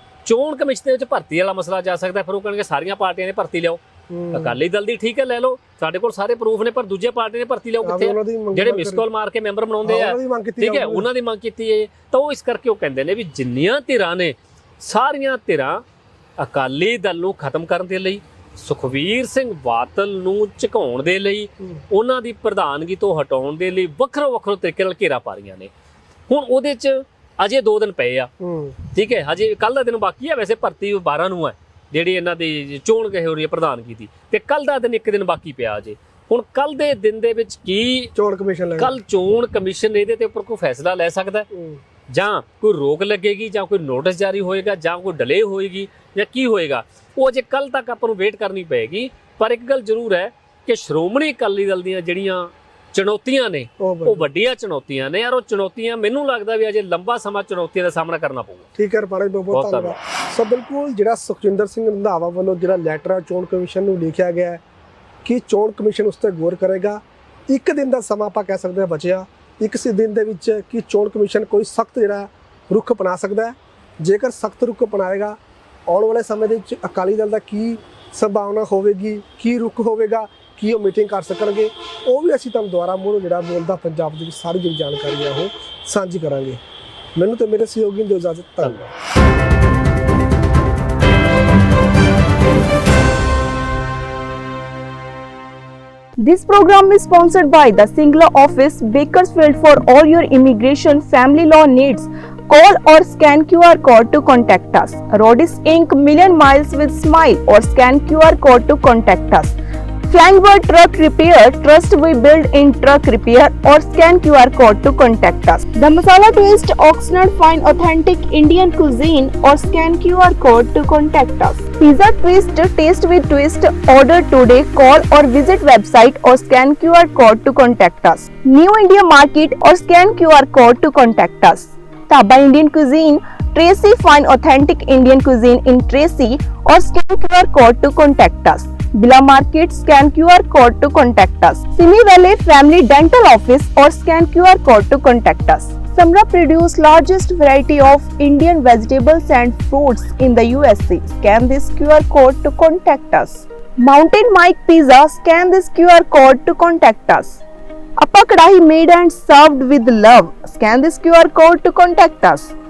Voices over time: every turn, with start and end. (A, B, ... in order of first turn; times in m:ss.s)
0:00.2-0:03.8 A
0:04.1-0:04.6 B
0:04.3-0:15.8 A
0:07.8-0:09.1 B
0:09.8-0:11.1 B
0:16.4-0:25.7 A
0:26.3-0:28.3 A
0:28.4-0:28.8 B
0:28.9-0:38.1 A
0:38.2-0:39.0 B
0:38.8-0:41.5 A
0:41.5-0:41.8 B
0:42.1-0:58.7 A
0:53.8-0:54.3 B
0:58.8-1:04.6 B
0:59.5-1:00.0 A
1:05.2-1:26.6 B
1:27.2-1:28.9 B
1:36.2-1:49.6 C
1:50.1-2:37.4 C
2:38.0-2:42.5 C